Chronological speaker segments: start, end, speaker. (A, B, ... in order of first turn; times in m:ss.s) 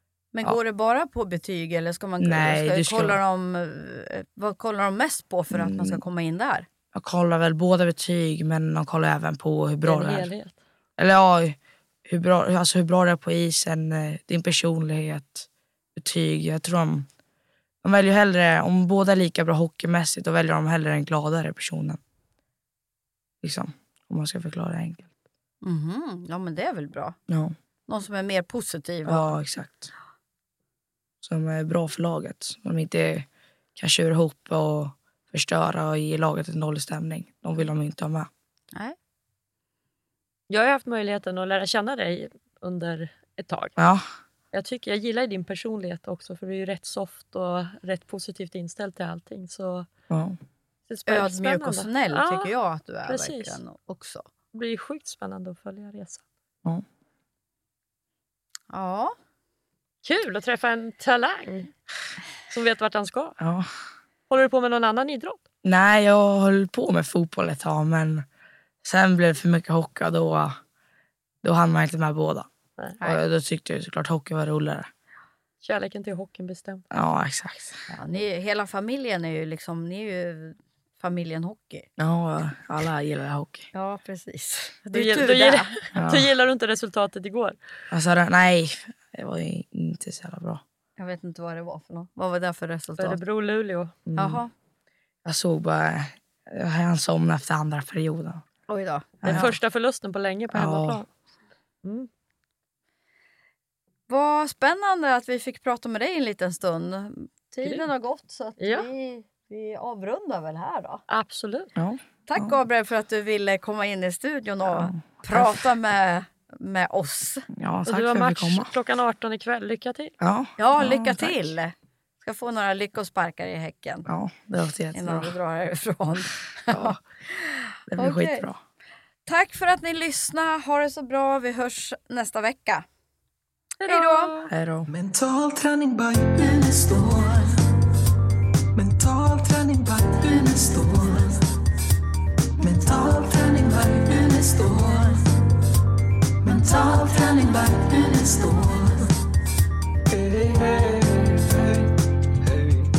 0:00.3-0:06.7 A
0:02.2-0:03.2 B
0:05.5-0:06.0 B
0:06.9-0:10.3 B
0:09.8-0:10.6 C
0:11.0-0:11.6 B
0:12.1-0:17.1 B
0:17.8-0:22.0 B
0:23.4-0:25.1 B
0:25.6-0:27.2 A
0:27.3-0:27.5 B
0:27.9-0:29.4 A
0:29.0-0:29.9 B
0:31.2-0:38.3 B
0:40.5-0:43.8 C
0:43.8-0:44.0 B
0:44.5-0:49.9 C
0:50.1-0:50.4 B
0:50.9-0:52.5 C
0:51.1-0:54.2 A
0:53.0-0:53.6 C
0:54.5-0:56.2 C
0:58.7-0:59.1 A
1:00.0-1:01.7 C
1:02.5-1:03.4 C
1:03.4-1:03.7 B
1:04.3-1:05.4 C
1:05.6-1:08.2 B
1:08.8-1:10.5 B
1:11.4-1:12.5 B
1:13.0-1:14.9 B
1:15.6-1:16.8 C
1:16.9-1:17.8 B
1:17.9-1:21.9 A
1:22.0-1:23.7 B
1:23.7-1:25.8 A
1:24.9-1:27.6 C
1:25.9-1:26.3 B
1:27.9-1:30.6 B
1:31.0-1:33.2 A
1:33.0-1:33.9 C
1:34.1-1:34.4 B
1:34.2-1:34.5 A
1:35.2-1:38.4 B
1:38.7-1:39.5 A
1:39.2-1:39.5 B
1:39.2-1:41.1 C
1:40.5-1:41.0 B
1:41.8-1:42.1 C
1:44.1-1:51.0 A
1:48.6-1:48.9 C
1:51.1-1:51.7 C
1:51.8-1:52.5 B
1:52.3-1:57.5 A
1:54.7-1:55.7 B
1:57.5-1:58.7 B
1:57.9-2:00.1 C
2:00.2-2:01.4 B
2:00.6-2:04.1 A
2:04.0-2:05.3 B
2:04.9-2:08.4 A
2:06.7-2:07.0 B
2:07.9-2:08.6 B
2:09.2-2:12.8 A
2:13.8-2:14.5 C
2:13.8-2:14.4 A
2:14.5-2:14.9 B
2:14.9-2:17.6 D
2:18.7-2:21.4 D
2:22.6-2:25.2 D
2:26.4-2:29.0 D
2:30.1-2:31.7 D